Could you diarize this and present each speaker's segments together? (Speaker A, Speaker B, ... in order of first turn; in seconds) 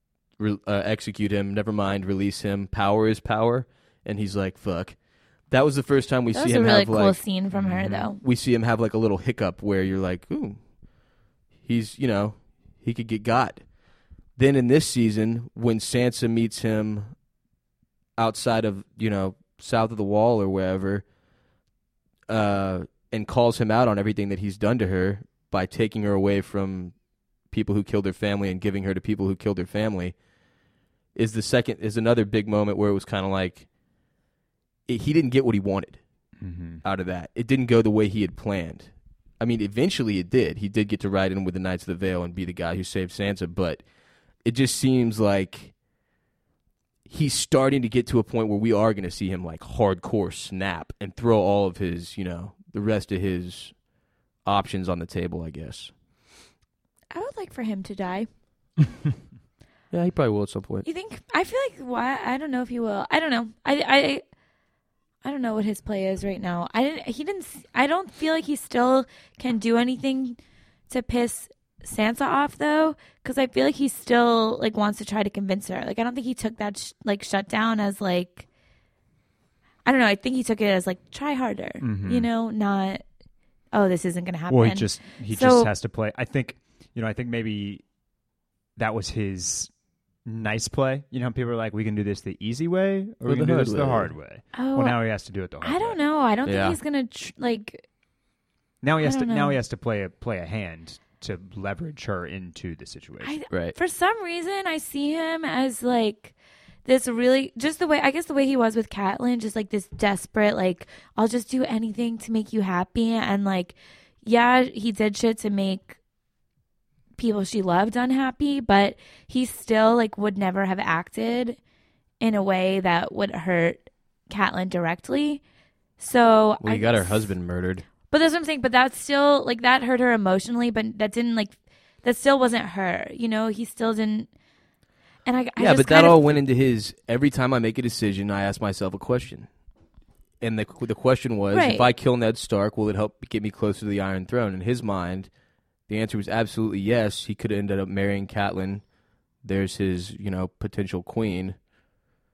Speaker A: 0.4-5.0, 5.5-7.2, 7.8-10.6, 11.6-13.6, 14.4-17.1, 18.2-21.0, 22.3-26.9, 27.5-30.1, 31.1-33.7, 34.9-36.0, 36.8-38.9, 39.4-43.8, 44.4-45.7, 47.1-53.7, 54.4-55.9, 59.9-60.9, 93.2-94.1, 96.4-96.8, 103.5-103.8, 126.6-127.9, 135.6-139.5, 140.4-145.3, 145.9-148.8, 149.4-151.6
Speaker B: 6.3-8.2, 57.1-58.3, 60.8-64.2, 65.2-78.5, 79.8-83.0, 83.7-85.7, 94.5-95.0, 95.6-97.8, 99.0-99.6, 103.2-116.0, 117.2-121.6, 122.2-125.4, 126.0-127.2, 128.1-134.3, 135.2-136.4, 141.5-141.8
Speaker C: 7.5-8.0, 36.4-36.8, 81.8-82.3, 84.5-87.8, 88.8-89.7, 90.2-96.0, 98.8-103.4